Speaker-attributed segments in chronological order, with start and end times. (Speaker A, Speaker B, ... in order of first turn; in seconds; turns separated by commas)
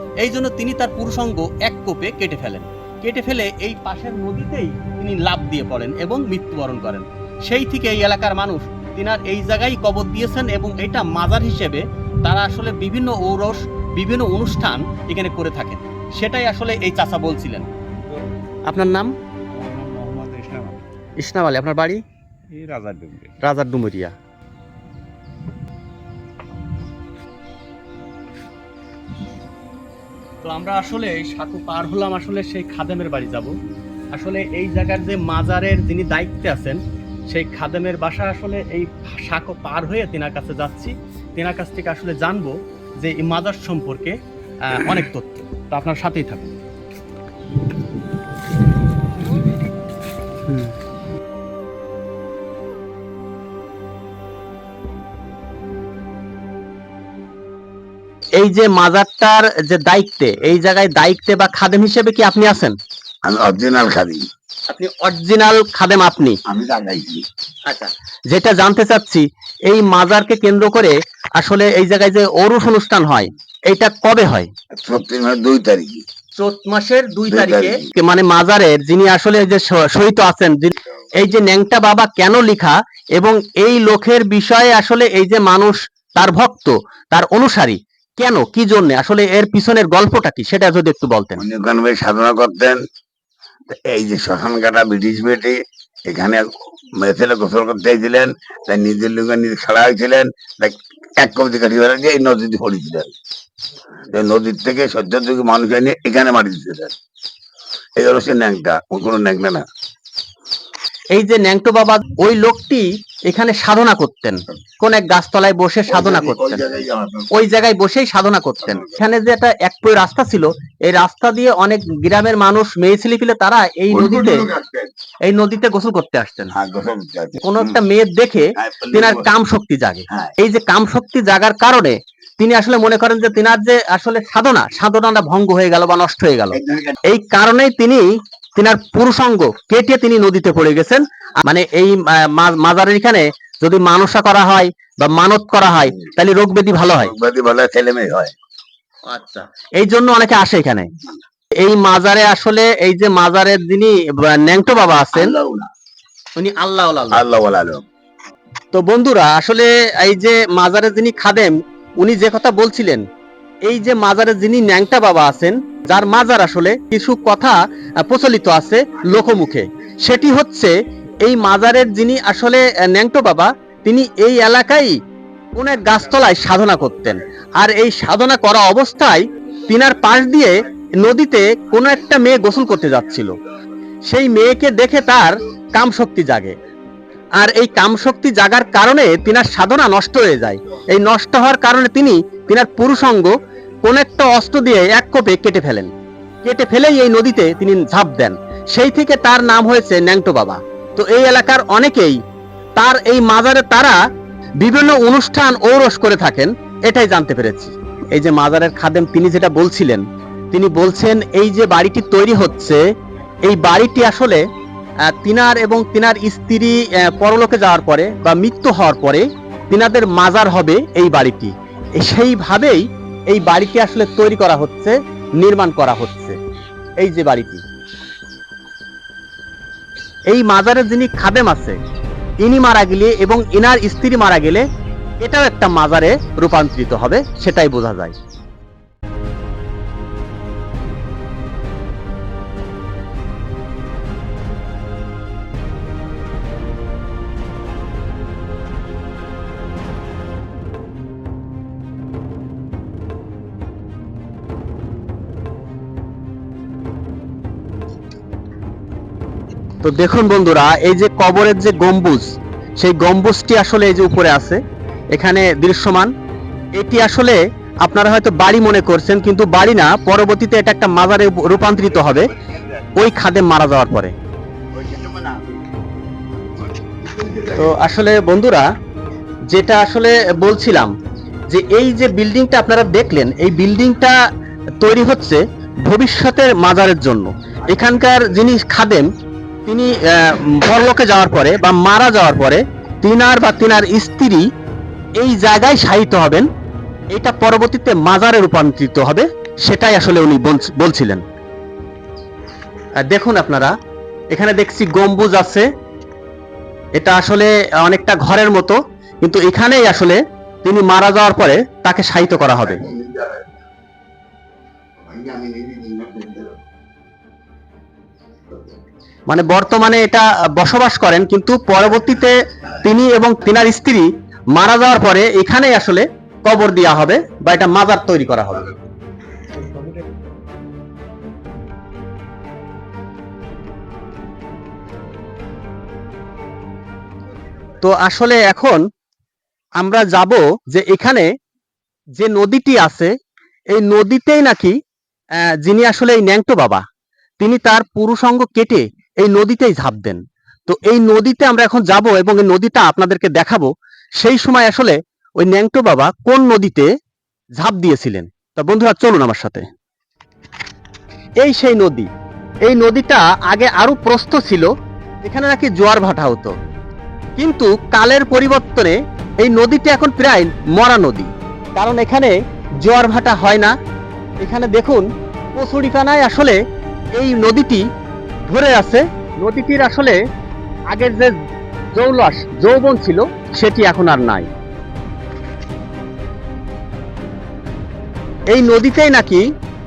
Speaker A: 0.2-17.7, Speaker A: 18.7-19.1, Speaker B: 19.5-20.8, Speaker A: 21.2-22.0, Speaker B: 22.5-23.4, Speaker A: 23.4-24.1, Speaker A: 30.4-33.5, Speaker A: 34.1-46.5, Speaker A: 58.4-62.8, Speaker C: 63.3-64.3, Speaker A: 64.7-66.4, Speaker C: 66.5-67.3, Speaker A: 67.7-74.5, Speaker C: 74.8-76.0, Speaker A: 76.4-91.4, Speaker C: 77.3-77.9, Speaker C: 91.4-92.8, Speaker C: 93.7-103.1, Speaker C: 104.1-107.0, Speaker C: 108.0-109.7, Speaker A: 111.1-116.8, Speaker C: 115.9-117.6, Speaker A: 117.3-124.5, Speaker C: 118.7-118.9, Speaker C: 123.9-124.9, Speaker A: 125.2-126.6, Speaker C: 126.5-127.8, Speaker A: 127.4-147.1, Speaker C: 128.6-129.3, Speaker C: 136.5-137.0, Speaker C: 146.9-148.3, Speaker A: 149.1-150.9, Speaker A: 151.6-155.3, Speaker C: 155.1-155.7, Speaker A: 156.4-157.3, Speaker C: 157.1-157.8, Speaker A: 158.7-163.1, Speaker A: 163.7-175.0, Speaker A: 175.6-183.3, Speaker A: 184.1-186.6, Speaker A: 187.4-195.9, Speaker A: 196.4-202.2, Speaker A: 202.8-204.0, Speaker A: 204.6-212.8, Speaker A: 213.4-214.4, Speaker A: 215.1-226.4, Speaker A: 227.0-227.6, Speaker A: 230.3-231.8, Speaker A: 232.4-234.7, Speaker A: 235.2-238.2, Speaker A: 259.8-264.6, Speaker A: 265.1-266.1, Speaker A: 266.8-272.3, Speaker C: 272.1-272.7, Speaker A: 273.0-274.1, Speaker C: 274.7-275.6, Speaker C: 277.1-277.6, Speaker A: 277.5-278.7, Speaker A: 279.5-280.9, Speaker A: 281.5-284.2, Speaker A: 284.8-289.1, Speaker A: 289.7-294.5, Speaker A: 295.2-296.5, Speaker A: 297.1-301.2, Speaker A: 303.0-303.7, Speaker A: 304.3-305.7, Speaker A: 307.0-312.8, Speaker C: 312.8-313.4, Speaker C: 315.1-316.5, Speaker A: 319.3-328.7, Speaker A: 337.8-338.8, Speaker A: 339.8-341.3, Speaker A: 342.2-343.1, Speaker A: 343.7-344.8, Speaker A: 345.4-346.8, Speaker A: 347.4-356.9, Speaker A: 357.6-359.7, Speaker A: 361.4-362.1, Speaker A: 362.6-364.7, Speaker A: 365.2-366.6, Speaker A: 367.4-373.8, Speaker A: 374.4-376.6, Speaker A: 377.1-377.9, Speaker A: 378.5-380.2, Speaker A: 380.9-381.4, Speaker A: 381.9-384.5, Speaker A: 388.5-389.5